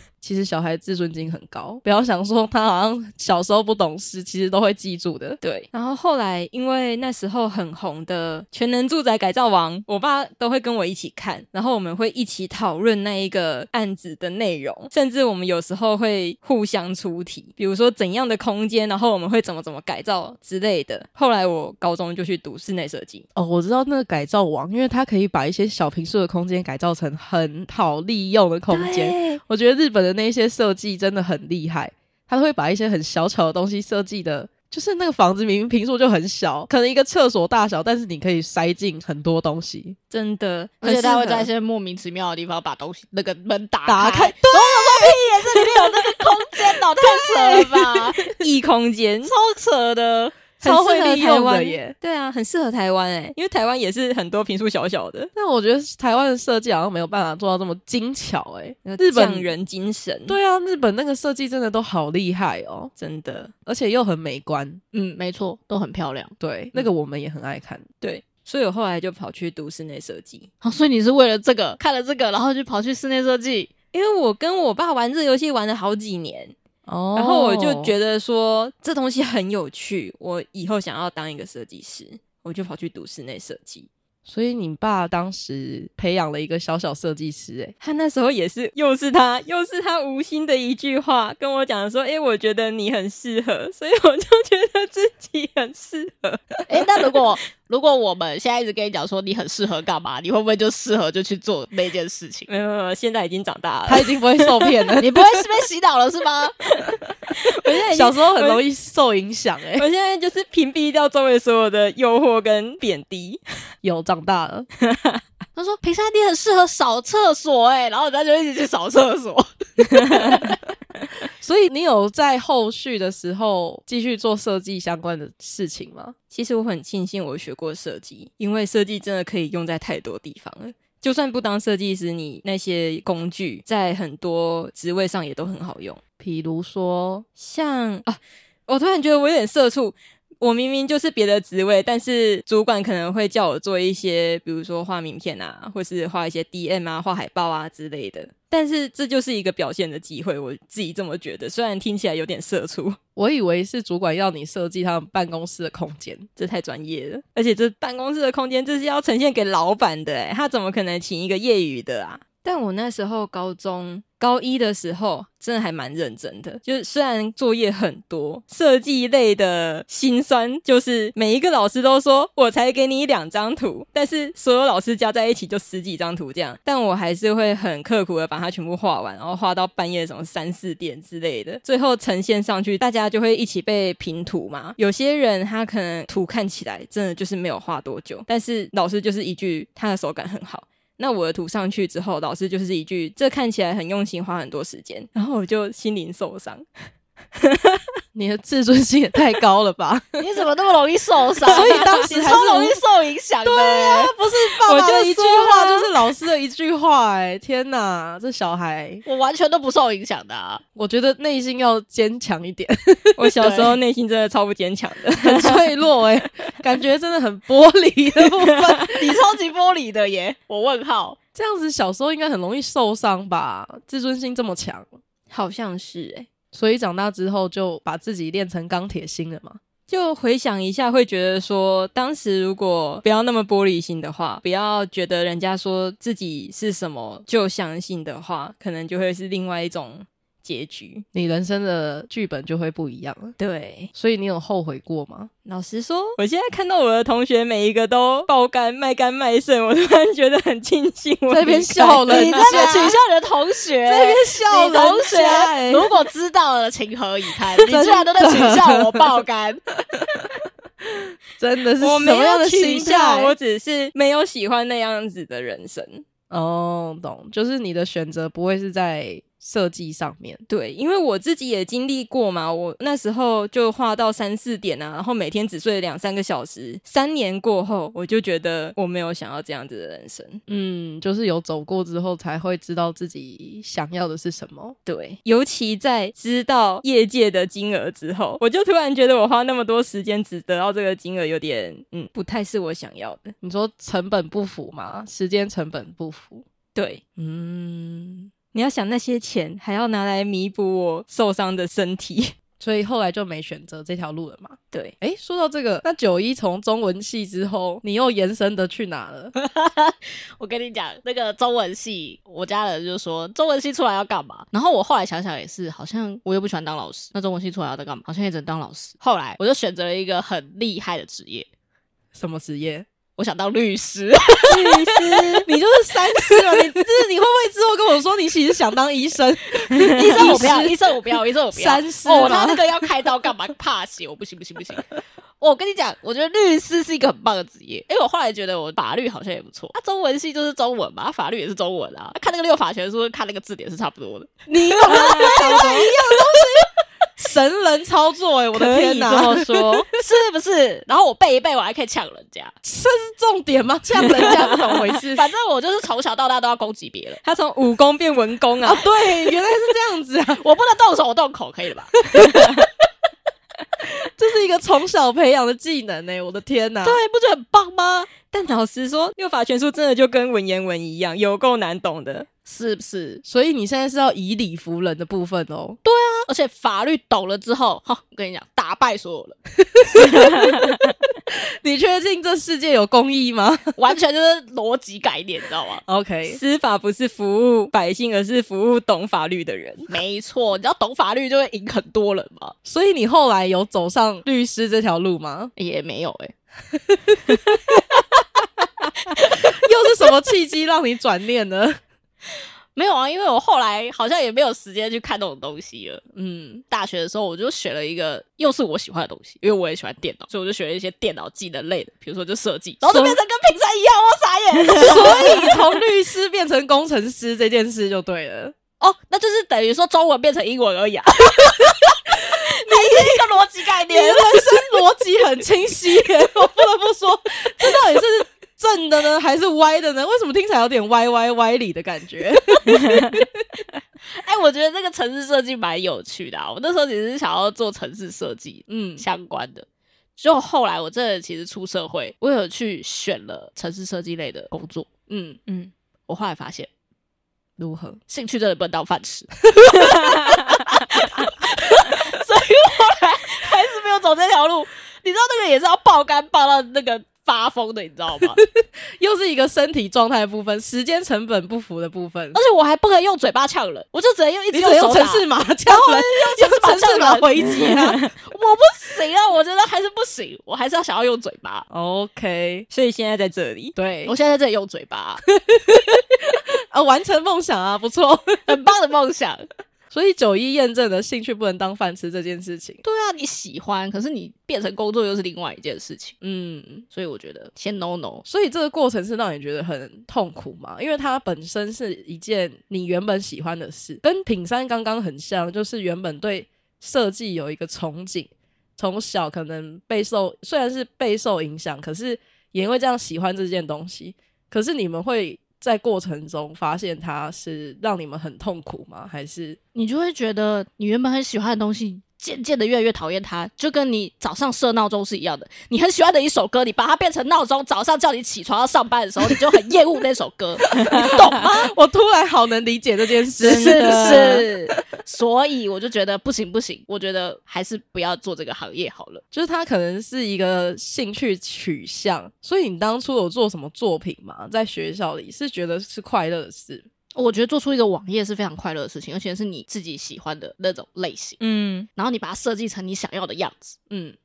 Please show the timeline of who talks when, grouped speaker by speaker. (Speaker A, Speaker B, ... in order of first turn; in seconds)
Speaker A: 0.2-5.4, 23.4-40.0, 43.9-45.2, 47.0-48.4, 50.6-52.0, 55.4-59.5, 60.3-62.9, 63.7-64.8, 66.4-67.9, 76.9-78.0, 84.3-87.7, 103.9-105.2, 107.9-109.9, 113.8-114.7, 121.4-126.1, 136.2-137.2, 153.2-156.3, 198.2-200.2, 201.5-202.8, 203.4-209.0, 210.8-213.7, 215.2-219.2, 221.3-224.9, 226.5-229.6, 241.1-243.4, 243.9-245.3, 251.3-253.0, 253.8-255.9, 257.6-259.1, 260.9-263.4, 266.3-270.4, 280.5-284.8, 293.4-296.4, 297.2-298.3, 302.6-309.3, 322.1-322.9, 325.4-330.8, 331.5-332.6, 344.5-346.7, 347.2-349.9, 352.6-355.3, 358.6-360.4, 362.1-362.5, 364.1-367.0, 373.2-375.8, 379.7-380.8, 381.6-383.8, 385.9-386.4, 392.6-395.5, 396.7-397.7, 399.4-401.8, 406.1-406.6, 412.9-413.2, 414.8-418.6, 422.2-423.2, 423.9-433.4, 438.7-439.0, 447.6-448.0, 458.4-462.4, 464.5-468.0, 471.7-472.7, 473.8-474.1, 475.3-478.5, 479.9-482.8, 486.2-486.9, 488.2-509.6, 520.8-524.5, 529.3-536.9, 543.9-544.2
Speaker B: 5.4-23.2, 28.7-29.4, 40.1-41.5, 48.4-49.3, 50.6-55.3, 58.9-60.4, 63.0-63.5, 68.0-70.5, 73.9-76.5, 77.2-83.9, 87.8-97.2, 102.5-104.9, 106.8-108.6, 109.8-113.4, 114.8-115.2, 126.3-136.0, 137.4-153.0, 156.4-196.7, 197.4-197.8, 201.5-202.0, 204.4-205.9, 213.2-215.6, 218.3-218.8, 225.3-226.3, 229.9-241.1, 243.4-243.9, 245.5-252.9, 261.8-266.0, 270.5-280.4, 284.9-293.3, 296.8-297.0, 298.5-302.3, 324.5-325.5, 329.8-330.4, 344.8-345.9, 348.5-349.9, 354.2-354.8, 357.2-358.9, 368.3-372.3, 379.9-380.9, 386.3-389.9, 467.6-468.1, 472.7-473.8, 523.4-524.5, 541.4-541.9
Speaker C: 40.8-48.3, 49.2-50.4, 64.9-66.3, 70.6-73.7, 96.7-102.5, 105.0-106.5, 115.6-120.6, 200.2-204.1, 209.1-210.6, 218.9-221.2, 252.1-259.6, 309.4-321.5, 323.2-325.0, 329.7-334.9, 335.4-346.7, 349.9-352.5, 355.1-357.2, 360.4-362.6, 366.8-368.1, 372.5-373.2, 375.8-379.4, 383.8-385.8, 389.9-392.6, 395.6-396.3, 399.1-399.5, 402.8-406.0, 406.7-415.5, 418.8-424.8, 434.1-439.7, 440.2-445.4, 446.1-446.7, 448.1-458.4, 462.3-467.4, 468.2-471.7, 474.1-475.2, 478.5-479.5, 482.8-486.2, 486.9-488.2, 509.7-521.7, 523.4-529.2, 537.1-541.4, 542.0-543.8